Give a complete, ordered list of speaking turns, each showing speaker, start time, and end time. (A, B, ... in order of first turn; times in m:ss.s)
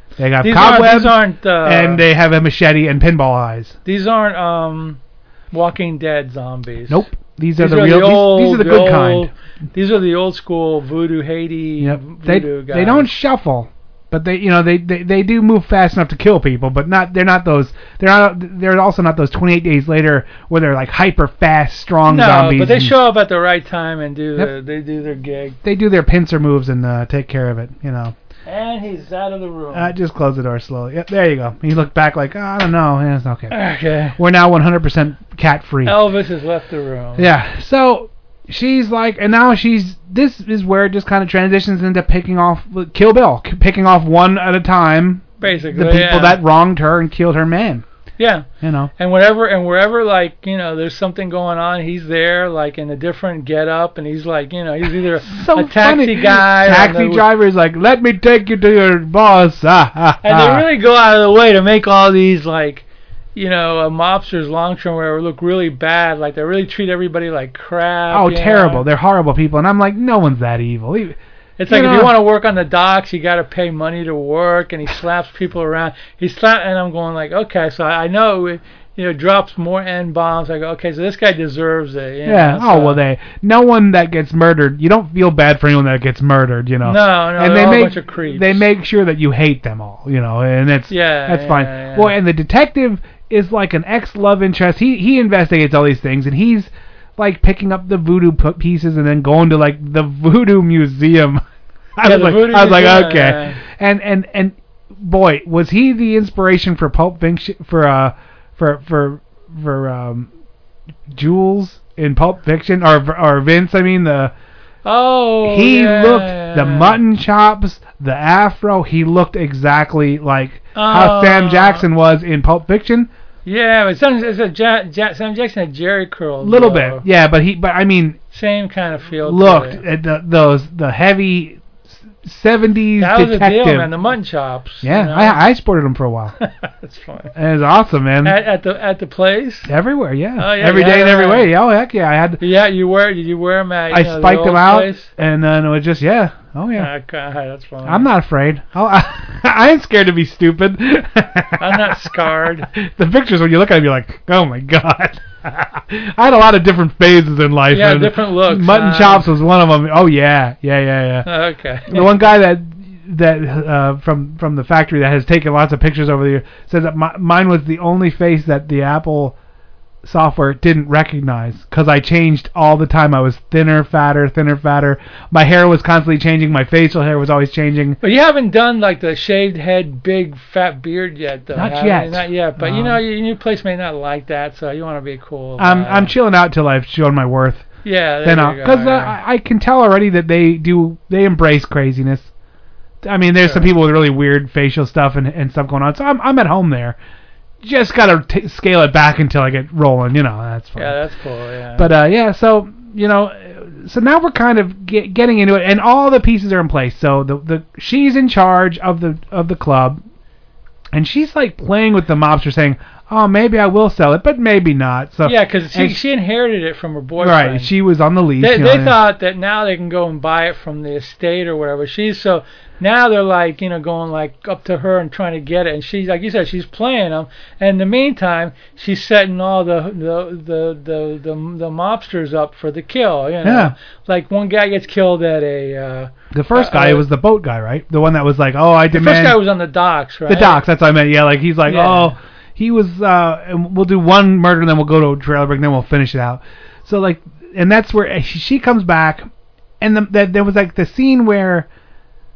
0:00.2-0:03.8 A
0:00.4-0:02.0 B
0:03.8-0:05.0 B
0:05.5-0:07.0 B
0:06.9-0:09.3 A
0:07.6-0:13.1 B
0:11.8-0:23.0 A
0:22.1-0:25.6 B
0:25.6-0:28.1 A
0:28.4-0:29.9 B
0:29.7-0:33.5 A
0:33.5-0:34.2 B
0:34.2-0:36.0 A
0:35.8-0:37.3 B
0:37.2-0:47.8 A
0:45.4-0:46.4 B
0:48.2-0:57.2 B
0:48.6-0:48.9 A
0:55.2-1:00.6 A
1:00.2-1:08.8 B
1:08.1-1:12.1 A
1:11.6-1:23.0 B
1:22.2-1:41.4 A
1:26.8-1:28.6 B
1:30.9-1:32.1 B
1:42.0-1:50.3 A
1:42.0-1:43.6 B
1:51.1-1:54.3 A
1:54.8-1:57.0 B
1:55.4-2:03.1 A
2:00.7-2:01.8 B
2:03.4-2:07.0 B
2:06.4-2:08.2 A
2:08.3-2:09.8 B
2:09.2-2:13.9 A
2:13.0-2:15.4 B
2:14.8-2:16.4 A
2:16.4-2:17.3 B
2:17.3-2:18.4 A
2:18.2-2:19.7 B
2:19.7-2:22.4 A
2:20.4-2:21.5 B
2:22.4-2:25.1 B
2:23.9-2:26.9 A
2:26.8-2:28.1 B
2:27.8-2:32.1 A
2:31.6-2:32.7 B
2:32.6-2:41.3 A
2:37.7-2:39.3 B
2:41.2-2:42.1 B
2:41.9-2:49.4 A
2:50.0-2:58.0 A
2:58.0-3:06.1 B
3:01.5-3:03.0 A
3:05.6-3:07.7 A
3:07.8-3:09.1 B
3:08.2-3:12.3 A
3:13.0-3:17.0 A
3:13.4-3:13.7 B
3:17.6-3:21.0 A
3:20.8-3:21.9 B
3:21.8-3:30.0 A
3:30.9-3:36.0 A
3:35.2-3:37.7 B
3:37.2-3:39.0 A
3:38.4-3:57.0 B
3:53.4-3:53.7 A
3:56.3-3:59.4 A
3:58.9-4:00.6 B
4:00.3-4:09.3 A
4:01.6-4:02.1 B
4:09.8-4:11.7 A